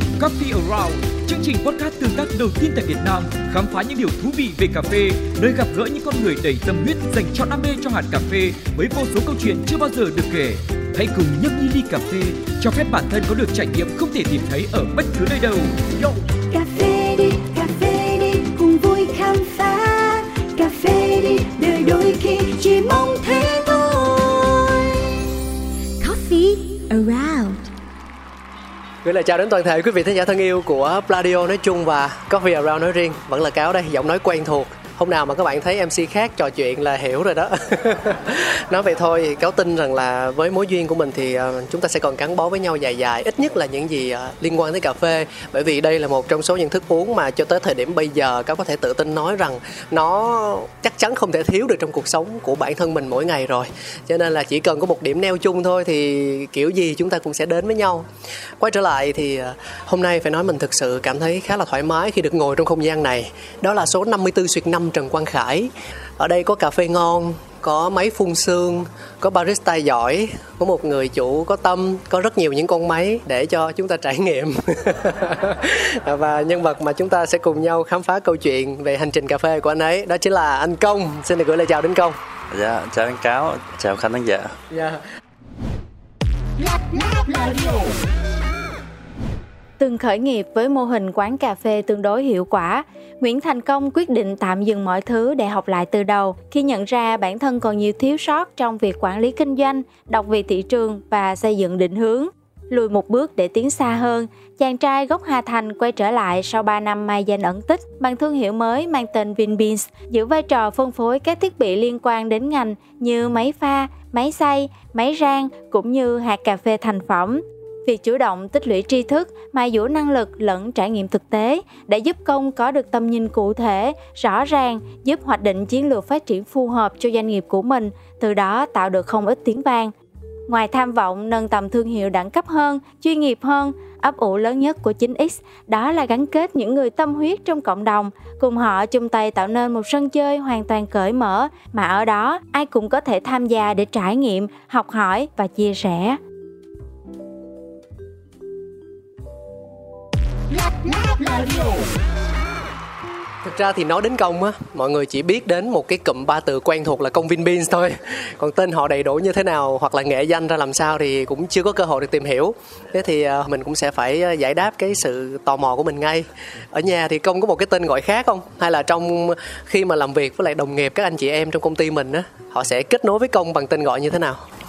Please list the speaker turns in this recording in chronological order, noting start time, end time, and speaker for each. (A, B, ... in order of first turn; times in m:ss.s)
0:00.2-0:15.8 A
0:16.5-0:25.0 B
0:26.0-0:27.7 B
0:29.0-0:58.1 C
0:58.6-1:22.2 C
1:22.5-1:24.6 D
1:24.7-1:25.0 C
1:29.8-2:09.9 E
2:10.5-2:26.2 E
2:33.4-2:54.4 C